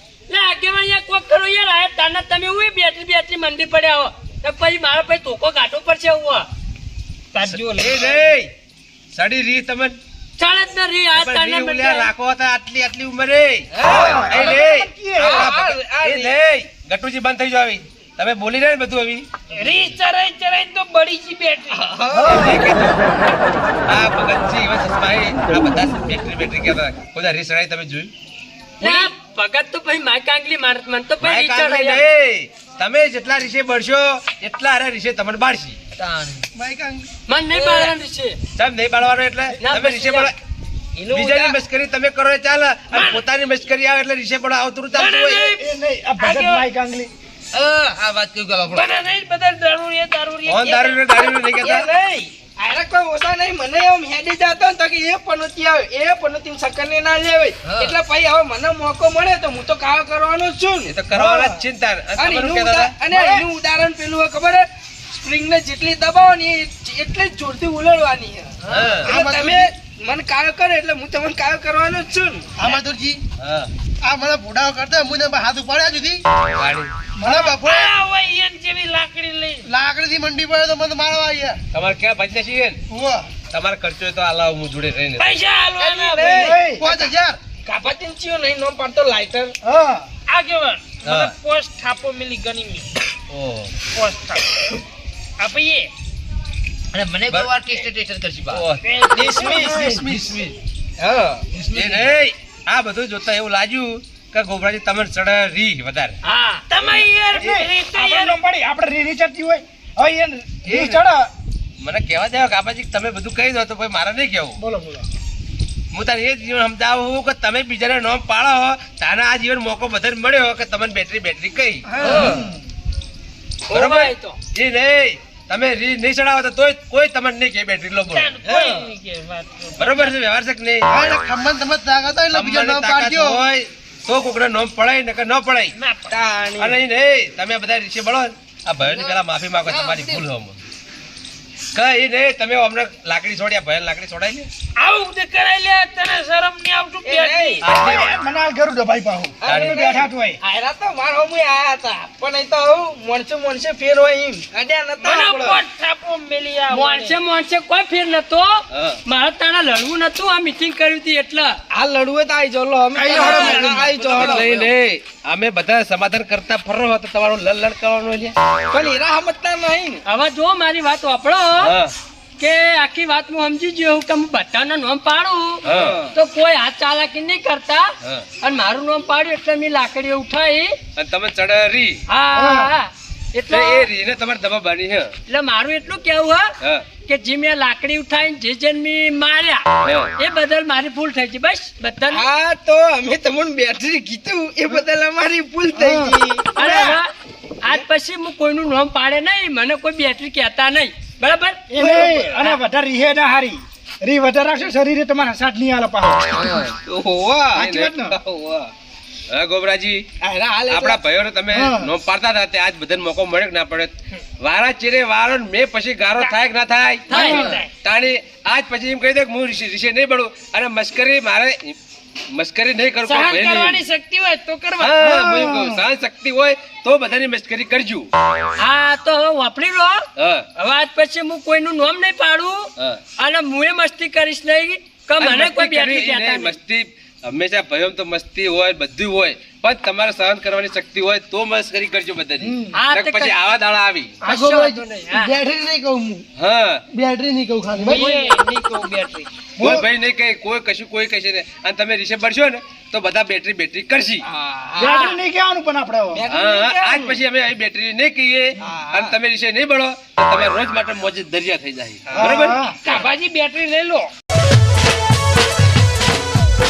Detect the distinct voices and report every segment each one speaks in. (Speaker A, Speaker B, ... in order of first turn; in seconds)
Speaker A: 0.3-6.5, 10.4-12.1, 28.8-32.0, 37.3-38.4, 39.6-40.3, 106.3-106.6, 122.0-122.4, 123.7-124.4, 156.7-161.6, 163.1-164.4, 170.1-171.7, 172.4-180.8, 182.1-183.9, 185.3-186.5, 187.1-189.6, 190.2-192.2, 196.6-197.1, 197.6-201.6, 217.1-217.6, 228.6-230.0, 230.6-236.6, 242.7-243.3, 244.2-245.4
Speaker B: 7.3-8.2, 19.5-21.9, 42.9-43.2, 44.9-45.4, 46.2-46.7, 48.6-51.1, 77.3-79.7, 85.2-86.5, 90.3-92.9, 93.9-94.5, 95.4-95.9, 98.8-99.7, 106.7-108.3, 128.1-130.1, 135.7-136.2, 144.8-147.7, 155.0-157.2, 217.1-217.7, 223.0-225.1, 247.8-249.3, 254.8-255.2, 262.9-264.1
Speaker C: 7.4-8.5, 9.1-10.0, 11.1-19.3, 22.2-23.0, 23.9-28.1, 31.2-35.8, 38.6-40.4, 41.1-45.5, 50.5-51.9, 60.9-63.0, 68.7-69.2, 73.4-73.7, 76.6-76.9, 81.7-82.8, 83.5-85.3, 91.0-91.3, 93.3-93.7, 97.3-97.7, 98.5-98.8, 99.6-100.5, 101.7-106.2, 110.7-111.0, 111.8-114.6, 115.9-122.2, 123.7-128.3, 129.8-131.2, 132.3-135.7, 136.6-140.6, 141.7-144.5, 147.6-148.1, 149.5-149.9, 158.7-159.0, 164.0-168.4, 171.6-171.9, 175.7-176.0, 181.0-182.0, 183.5-185.1, 189.8-190.1, 207.6-208.1, 209.3-210.1, 210.7-217.3, 217.8-221.8, 222.3-223.8, 224.8-228.1, 230.2-230.5, 235.2-244.2, 246.4-246.8, 249.6-254.2, 256.3-262.6
Speaker D: 13.7-14.3, 15.2-16.3, 21.7-22.3, 37.5-37.9, 41.0-41.6, 51.1-61.0, 62.2-72.5, 85.8-86.7, 87.7-89.5, 99.1-100.1, 101.0-101.5, 121.9-122.4, 128.4-128.9, 136.1-136.8, 147.0-147.6, 149.4-155.6, 161.7-164.7, 168.7-170.0, 175.7-176.2, 192.1-197.0, 201.8-202.6, 206.9-208.7, 210.2-211.0, 254.2-254.9, 256.1-257.2, 258.6-259.2, 262.1-262.5
Speaker E: 13.9-15.5, 22.1-22.7, 45.2-47.1, 61.1-61.6, 63.1-63.5, 86.2-86.9, 89.6-90.0, 107.3-111.3, 114.6-115.1, 122.2-122.6, 147.7-150.4, 163.0-164.0, 182.3-182.7, 195.7-196.2, 201.7-206.7, 207.6-208.2, 211.5-211.9, 217.1-217.5, 225.0-225.8, 249.6-249.9, 254.8-256.2, 262.2-262.8
Speaker F: 36.5-37.1, 69.1-69.7, 72.6-73.2, 74.0-76.2, 77.2-78.0, 79.7-81.6, 82.9-83.2, 86.7-87.4, 130.9-133.4, 242.4-242.7, 244.3-246.2, 246.9-248.1
Speaker G: 47.5-48.8, 57.7-57.9, 97.2-97.9, 138.9-140.1